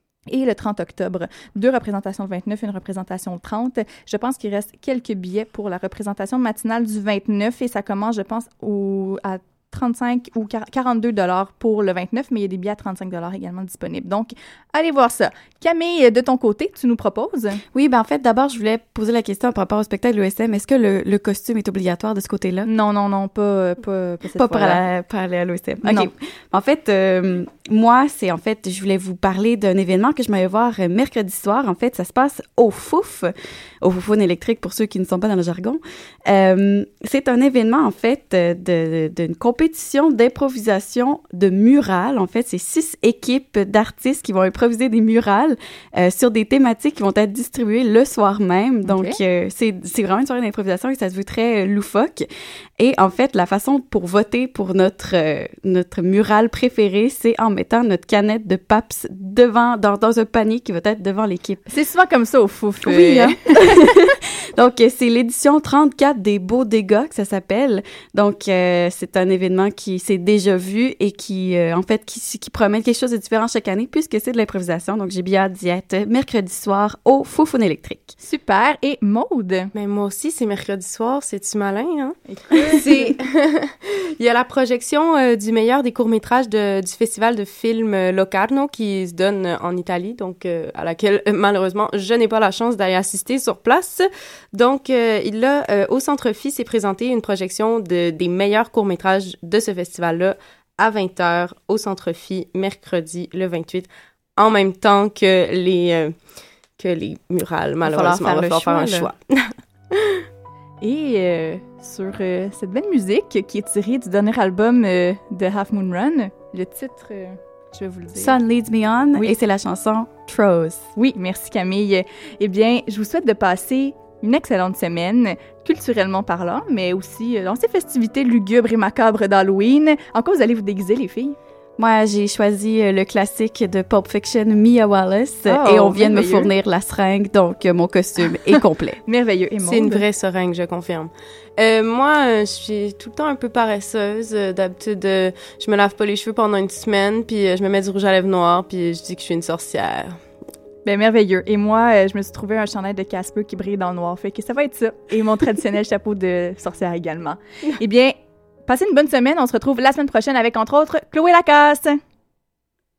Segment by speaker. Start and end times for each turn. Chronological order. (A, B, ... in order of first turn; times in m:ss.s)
0:00.3-0:17.6 A
0:17.7-0:22.7 B
0:22.6-0:24.8 A
0:24.4-0:52.3 B
0:25.8-0:26.1 A
0:48.8-0:49.2 A
0:52.8-1:01.6 B
1:01.7-1:03.9 A
1:02.8-1:18.2 B
1:18.2-1:19.7 A
1:19.8-1:46.1 C
1:22.3-1:23.1 A
1:46.8-1:50.3 C
1:47.9-1:49.1 B
1:50.8-1:58.4 A
1:58.2-2:00.9 B
2:01.0-2:11.4 A
2:11.8-2:19.0 B
2:15.4-2:16.5 A
2:19.0-2:20.0 A
2:19.6-2:30.2 C
2:30.8-2:38.2 A
2:38.7-2:42.0 A